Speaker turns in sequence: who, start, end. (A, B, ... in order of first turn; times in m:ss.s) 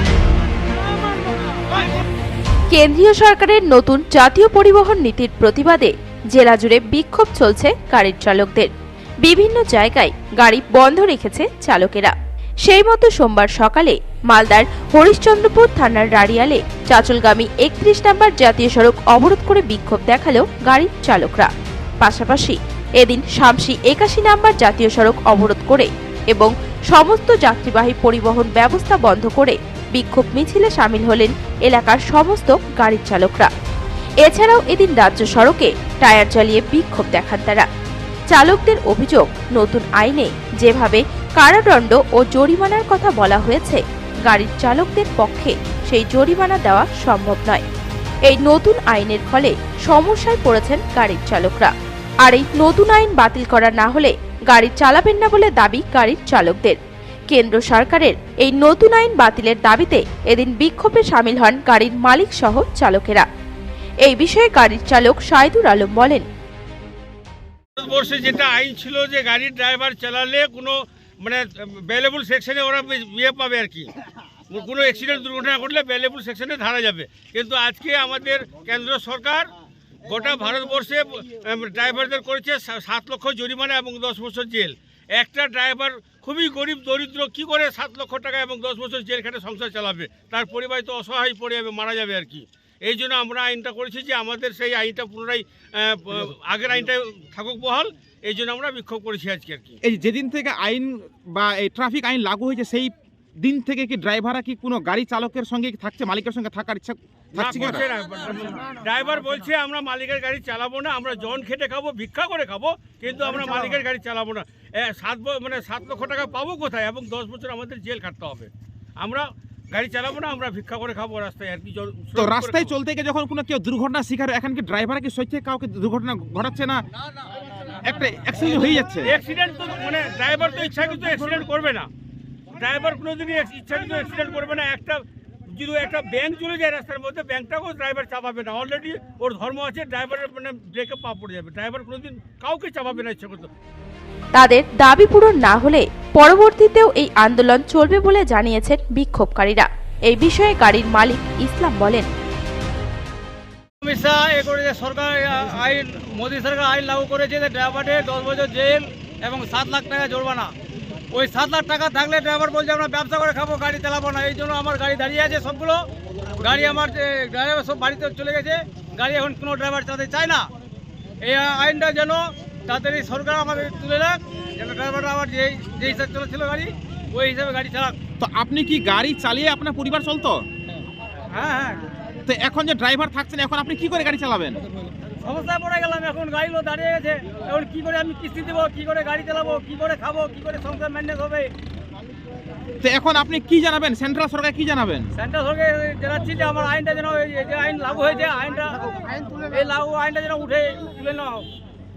0:00.7-0:01.6 A
0:02.7-0:08.7 B
0:09.2-0:12.1 B
0:12.6-0:21.5 B
0:22.0-0:33.5 B
0:34.2-0:37.7 B
0:38.3-0:47.6 B
0:48.3-0:51.7 B
0:52.2-0:56.8 B
0:57.3-1:03.3 B
1:04.0-1:06.3 B
1:07.8-1:13.9 C
1:14.5-1:19.5 C
1:20.0-1:39.8 C
1:39.8-1:47.9 D
1:47.4-2:02.7 C
2:02.2-2:06.8 D
2:07.9-2:09.1 D
2:08.4-2:11.9 C
2:12.6-2:23.5 C
2:24.4-2:32.1 B
2:33.8-2:40.5 A
2:41.1-2:45.8 A
2:46.4-2:50.5 A
2:51.2-2:58.0 A
2:58.2-3:00.4 D
3:01.3-3:01.9 A
3:02.3-3:04.6 D
3:05.2-3:11.5 A
3:12.8-3:15.1 D
3:15.2-3:21.5 A